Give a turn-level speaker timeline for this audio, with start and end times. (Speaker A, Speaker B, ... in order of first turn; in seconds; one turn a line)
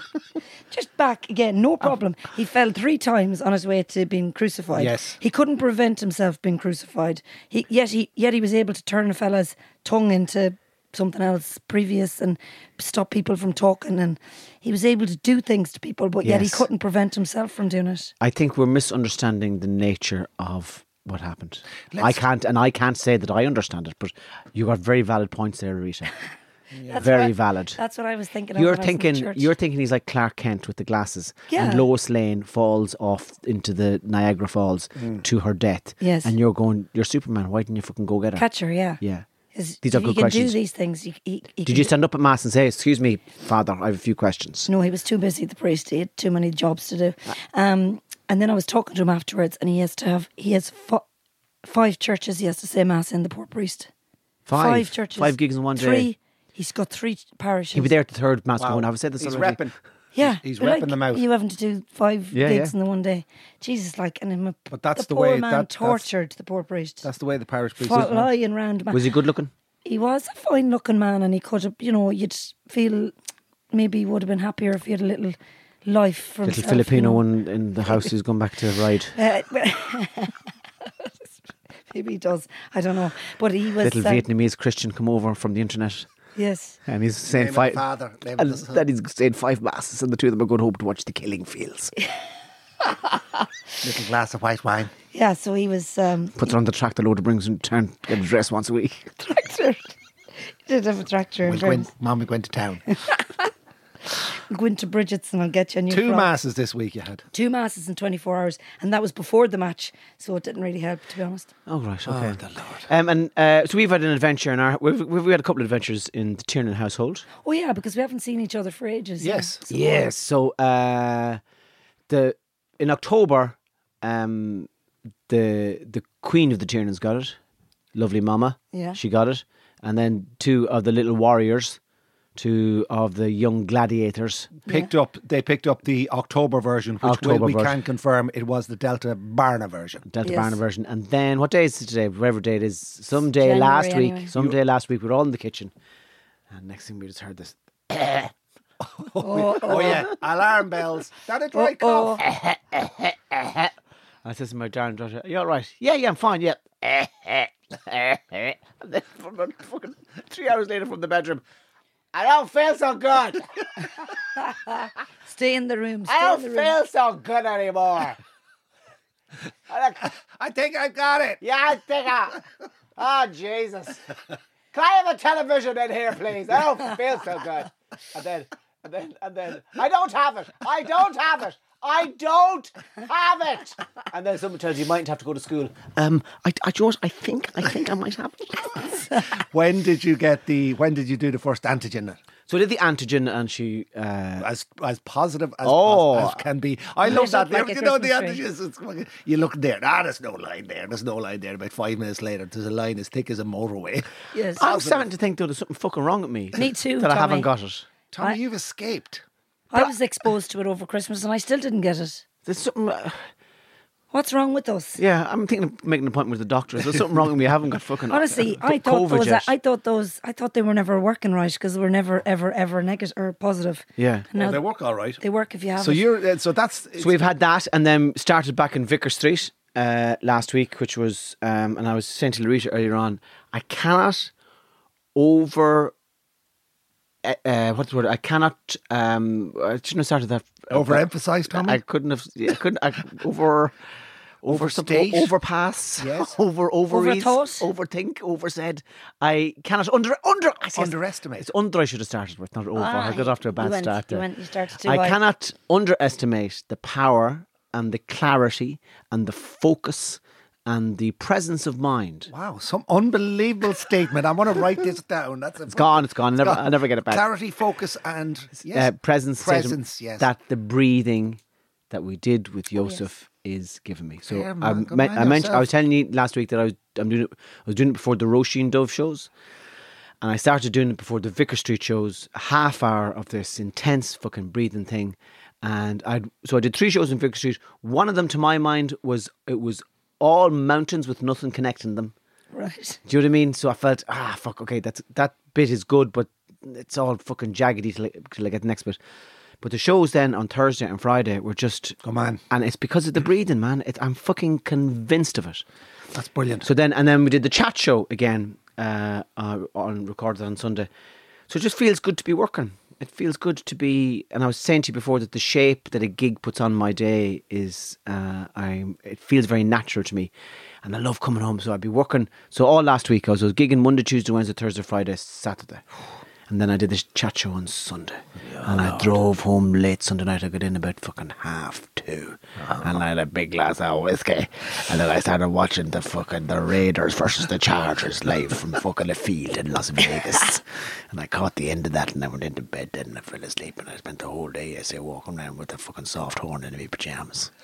Speaker A: 0.7-18.1
Speaker B: 4.8-5.2
Speaker C: 16.2-16.7
Speaker C: 18.2-26.1
Speaker B: 21.9-22.2
Speaker B: 26.7-27.1
Speaker A: 26.9-29.5
Speaker C: 27.0-27.8
Speaker C: 28.6-38.5
Speaker A: 31.5-31.9
Speaker A: 36.0-36.3
Speaker A: 38.4-39.0
Speaker C: 39.0-39.3
Speaker A: 39.5-41.9
Speaker C: 39.8-40.6
Speaker C: 41.6-44.7
Speaker A: 44.7-51.0
Speaker A: 51.6-53.9
Speaker C: 54.5-56.1
Speaker A: 54.5-57.9
Speaker C: 57.7-59.6
Speaker B: 58.6-61.2
Speaker A: 60.1-67.1
Speaker C: 62.3-62.7
Speaker B: 64.7-66.1
Speaker B: 67.0-68.2
Speaker A: 67.8-69.0
Speaker C: 67.9-68.3
Speaker C: 68.9-69.5
Speaker A: 69.8-73.1
Speaker A: 73.7-77.2
Speaker C: 76.5-79.2
Speaker A: 79.2-81.4
Speaker A: 81.9-84.2
Speaker C: 83.8-86.1
Speaker A: 86.4-86.8
Speaker C: 86.9-87.8
Speaker B: 87.3-88.8
Speaker C: 88.4-91.9
Speaker B: 93.8-94.9
Speaker A: 95.1-96.5
Speaker C: 96.4-99.2
Speaker A: 99.2-99.9
Speaker A: 100.7-101.9
Speaker B: 101.5-102.8
Speaker A: 103.1-103.5
Speaker A: 104.5-106.3
Speaker B: 105.9-107.3
Speaker A: 107.3-111.5
Speaker C: 111.7-117.3
Speaker B: 112.1-112.9
Speaker A: 117.4-119.5
Speaker B: 119.2-119.7
Speaker C: 119.7-121.4
Speaker C: 122.1-124.7
Speaker C: 125.3-127.4
Speaker C: 128.0-131.8
Speaker A: 128.7-129.0
Speaker C: 132.4-134.6
Speaker B: 134.7-140.1
Speaker C: 137.0-137.8
Speaker C: 140.1-145.7
Speaker A: 140.2-140.6
Speaker A: 143.4-144.3
Speaker C: 146.5-148.3
Speaker B: 148.9-152.3
Speaker A: 149.2-150.1
Speaker C: 149.7-150.0
Speaker A: 151.5-152.2
Speaker C: 152.2-153.7
Speaker C: 154.2-161.4
Speaker C: 162.1-164.1
Speaker A: 165.3-166.7
Speaker C: 166.1-168.2
Speaker C: 169.7-170.1
Speaker B: 170.2-171.4
Speaker C: 171.4-172.4
Speaker C: 173.0-174.1
Speaker C: 174.7-189.1
Speaker B: 189.3-192.2
Speaker C: 192.5-194.5
Speaker B: 194.4-205.1
Speaker C: 195.6-196.4
Speaker A: 197.1-198.4
Speaker A: 204.3-204.6
Speaker C: 204.6-207.9
Speaker A: 206.6-207.5
Speaker B: 208.1-209.2
Speaker A: 209.7-212.2
Speaker C: 212.5-213.3
Speaker A: 214.1-215.0
Speaker C: 215.0-219.5
Speaker A: 218.1-224.6
Speaker C: 224.0-224.3
Speaker B: 224.3-225.2
Speaker A: 225.2-226.1
Speaker B: 225.8-227.2
Speaker C: 227.0-234.3
Speaker C: 235.2-235.9
Speaker C: 237.2-243.8
Speaker B: 240.7-241.8
Speaker C: 244.4-254.2
Speaker B: 244.5-245.3
Speaker B: 246.0-246.4
Speaker A: 246.9-247.7
Speaker B: 250.7-251.5
Speaker A: 252.8-255.2
Speaker C: 254.8-262.3
Speaker B: 262.3-270.3
Speaker C: 265.7-267.2
Speaker C: 268.7-271.4
Speaker C: 271.9-279.3
Speaker B: 274.3-275.7
Speaker C: 280.2-292.1
Speaker A: 292.5-293.0
Speaker C: 293.1-299.0
Speaker C: 299.6-302.0
Speaker B: 302.0-302.4
Speaker C: 302.5-305.6
Speaker B: 306.1-306.7
Speaker C: 306.6-310.9
Speaker C: 311.5-320.3
Speaker C: 320.8-325.9
Speaker C: 326.5-347.5
Speaker B: 328.5-329.2